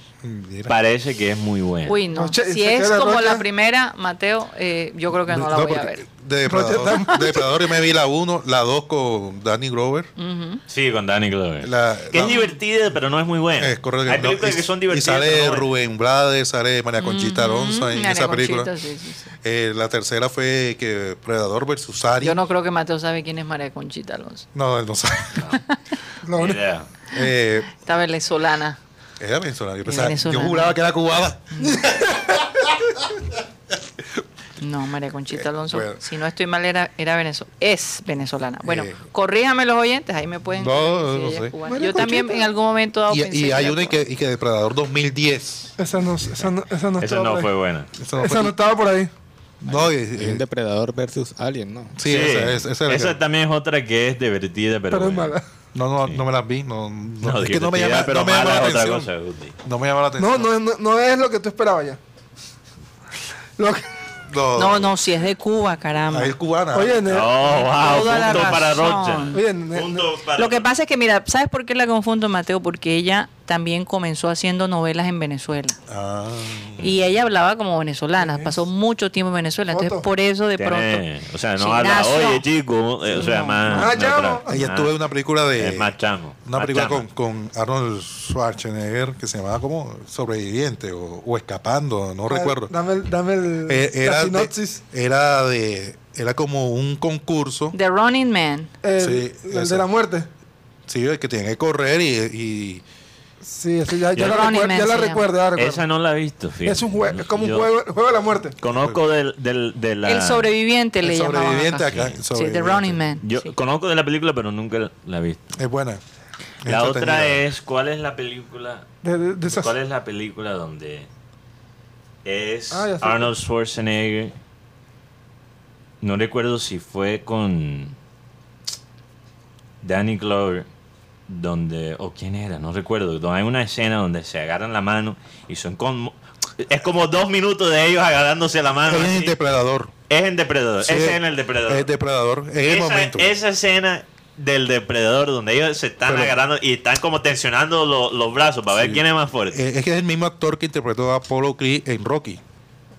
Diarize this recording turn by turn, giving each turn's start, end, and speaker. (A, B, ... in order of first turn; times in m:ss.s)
0:00.2-0:00.7 A
0:00.7-0:02.0 B
0:01.8-0:06.0 C
0:02.1-0:03.4 D
0:05.1-0:10.1 A
0:06.4-0:07.5 D
0:10.2-0:10.6 C
0:10.7-0:15.7 B
0:11.6-0:12.4 A
0:12.3-0:12.5 C
0:13.6-0:18.7 A
0:17.0-0:19.3 C
0:19.4-0:22.4 A
0:22.2-0:24.4 C
0:24.5-0:25.5 A
0:26.2-0:26.6 D
0:26.3-0:26.9 B
0:27.1-0:27.8 A
0:27.7-0:28.8 C
0:29.2-0:33.3 A
0:29.8-0:30.8 C
0:31.5-0:31.8 C
0:34.6-0:44.0 C
0:35.3-0:36.0 A
0:38.6-0:39.0 A
0:40.6-0:42.0 A
0:41.7-0:42.5 D
0:43.1-0:45.8 A
0:45.8-0:47.5 D
0:47.0-0:47.9 B
0:48.0-0:48.6 A
0:48.2-0:49.1 D
0:49.6-0:50.4 A
0:49.6-0:52.0 E
0:52.0-0:53.2 A
0:52.1-0:55.4 B
0:54.9-0:55.4 D
0:55.7-0:59.1 A
0:57.2-0:59.5 B
0:59.6-1:00.5 A
1:00.2-1:02.0 D
1:03.6-1:03.9 D
1:04.3-1:05.0 A
1:04.6-1:06.3 C
1:06.1-1:07.3 A
1:06.7-1:08.6 D
1:07.1-1:10.7 B
1:07.7-1:09.4 C
1:09.3-1:10.1 D
1:10.4-1:15.8 C
1:15.9-1:16.9 A
1:16.8-1:21.0 C
1:18.2-1:18.6 D
1:19.7-1:20.0 D
1:20.6-1:24.9 B
1:21.6-1:22.4 C
1:23.1-1:23.9 C
1:23.7-1:24.5 D
1:24.5-1:25.9 A
1:25.6-1:27.0 B
1:26.4-1:32.7 A
1:32.3-1:34.8 D
1:33.6-1:37.8 A
1:37.7-1:38.7 C
1:38.8-1:40.3 D
1:39.0-1:39.9 A
1:40.9-1:42.8 A
1:43.4-1:45.8 D
1:44.2-1:44.5 B
1:44.2-1:45.3 C
1:45.6-1:47.7 B
1:46.6-1:48.6 D
1:48.6-1:50.5 B
1:48.7-1:49.0 A
1:50.0-1:53.5 C
1:51.0-1:53.0 A
1:51.9-1:52.2 B
1:53.2-1:55.5 B
1:55.6-1:56.0 A
1:56.6-1:57.4 A
1:56.6-1:58.8 B
1:59.0-1:59.7 D
1:59.4-2:01.1 B
2:02.2-2:04.3 B
2:02.7-2:03.3 D
2:06.0-2:07.9 B
2:09.8-2:10.7 B
2:11.3-2:19.4 B
2:18.8-2:19.9 A
2:20.1-2:21.9 B
2:20.8-2:23.3 A
2:22.6-2:29.6 B
2:26.0-2:26.4 A
2:28.7-2:32.4 A